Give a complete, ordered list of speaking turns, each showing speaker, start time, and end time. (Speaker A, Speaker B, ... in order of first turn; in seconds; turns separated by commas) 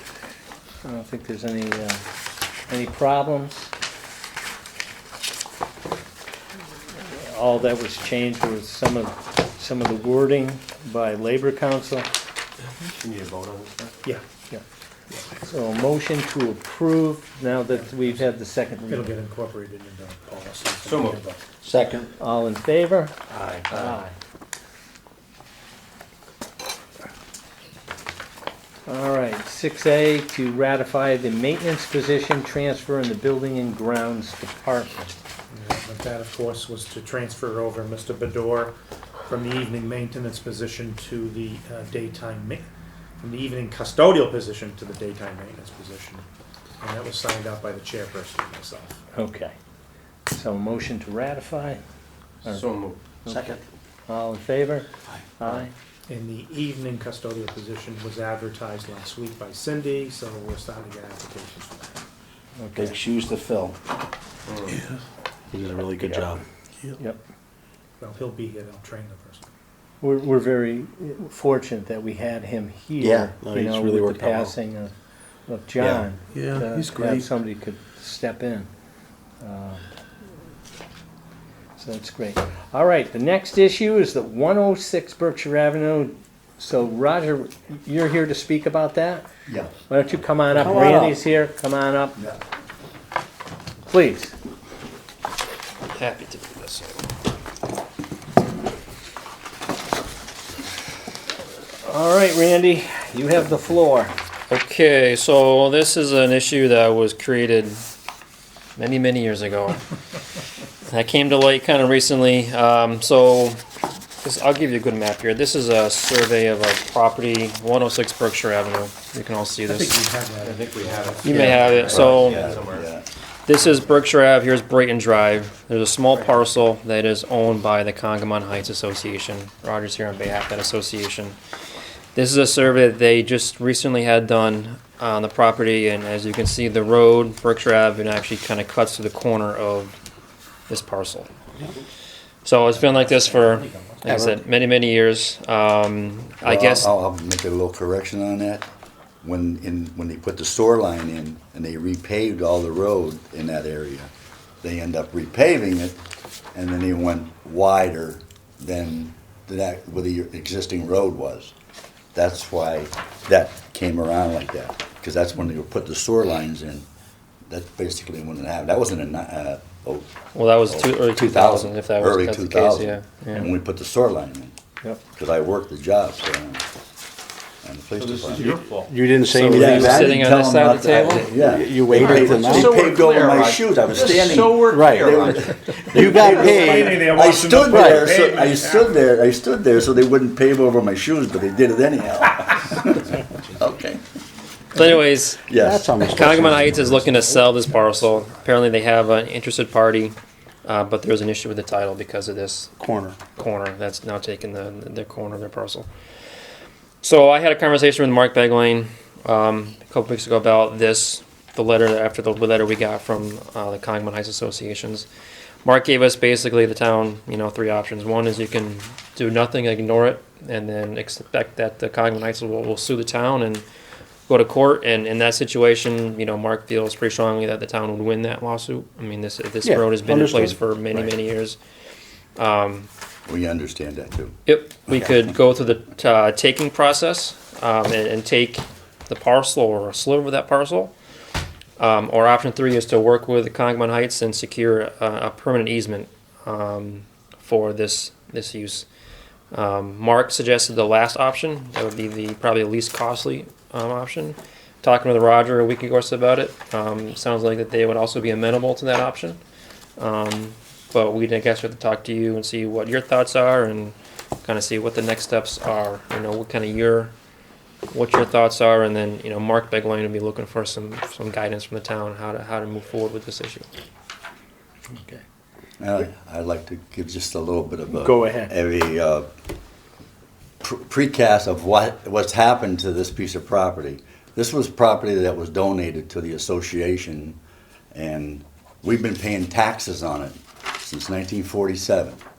Speaker A: 0.8-2.0, Speaker A: 2.7-3.7, Speaker A: 7.0-12.1, Speaker B: 12.8-13.9, Speaker A: 15.4-19.1, Speaker C: 18.9-21.4, Speaker B: 20.8-21.2, Speaker D: 21.6-22.1, Speaker A: 22.2-23.1, Speaker B: 23.3-23.8, Speaker A: 23.7-24.1, Speaker A: 28.9-35.1, Speaker C: 35.5-38.7, Speaker C: 39.3-42.7, Speaker C: 43.2-46.2, Speaker C: 46.8-49.0, Speaker A: 49.1-49.5, Speaker A: 50.3-51.8, Speaker B: 52.5-53.0, Speaker A: 53.2-53.5, Speaker D: 53.3-53.6, Speaker A: 54.1-54.9, Speaker A: 55.4-55.7, Speaker C: 56.1-62.1, Speaker A: 62.6-63.0, Speaker D: 62.8-63.8, Speaker B: 64.5-64.8, Speaker D: 65.5-66.4, Speaker C: 68.0-69.5, Speaker A: 70.0-74.9, Speaker D: 73.0-74.5, Speaker A: 75.5-78.7, Speaker B: 76.3-77.2, Speaker A: 79.4-79.8, Speaker A: 81.8-89.3, Speaker E: 89.5-89.7, Speaker A: 89.9-92.2, Speaker D: 90.5-91.2, Speaker A: 93.9-94.3, Speaker F: 96.0-97.0, Speaker A: 101.8-104.1, Speaker F: 104.5-107.8, Speaker F: 108.8-109.8, Speaker F: 110.9-113.6, Speaker F: 114.2-120.0, Speaker C: 119.7-121.8, Speaker B: 120.4-122.9, Speaker F: 121.2-122.5, Speaker E: 121.9-123.1, Speaker F: 123.5-131.4, Speaker F: 132.2-140.0, Speaker F: 140.7-141.3, Speaker F: 142.4-146.9, Speaker D: 144.1-144.4, Speaker E: 146.4-148.7, Speaker E: 149.2-154.1, Speaker E: 154.6-156.0, Speaker E: 156.5-161.5, Speaker E: 162.2-166.9, Speaker E: 167.5-170.1, Speaker F: 170.3-173.5, Speaker E: 170.7-174.6, Speaker E: 175.2-176.6, Speaker E: 177.6-178.6, Speaker B: 178.0-179.0, Speaker D: 178.4-180.2, Speaker F: 179.3-181.3, Speaker E: 179.5-194.0, Speaker D: 181.3-182.8, Speaker B: 182.0-186.2, Speaker D: 184.6-185.2, Speaker D: 185.9-187.1, Speaker C: 186.2-189.1, Speaker D: 187.7-188.1, Speaker F: 194.8-195.5, Speaker E: 195.5-196.3, Speaker D: 195.5-197.0, Speaker F: 196.1-202.7, Speaker D: 202.8-203.2, Speaker F: 203.4-205.9, Speaker F: 207.0-215.1, Speaker F: 215.6-223.7, Speaker F: 224.3-231.6, Speaker D: 229.6-231.1, Speaker F: 232.4-232.9, Speaker E: 233.3-234.3, Speaker F: 234.5-240.9, Speaker E: 234.9-235.2, Speaker F: 241.8-248.9, Speaker F: 249.5-259.4, Speaker F: 260.0-267.1, Speaker F: 267.9-273.7, Speaker E: 275.8-279.3, Speaker A: 277.9-278.5, Speaker E: 280.6-287.4, Speaker E: 287.9-292.2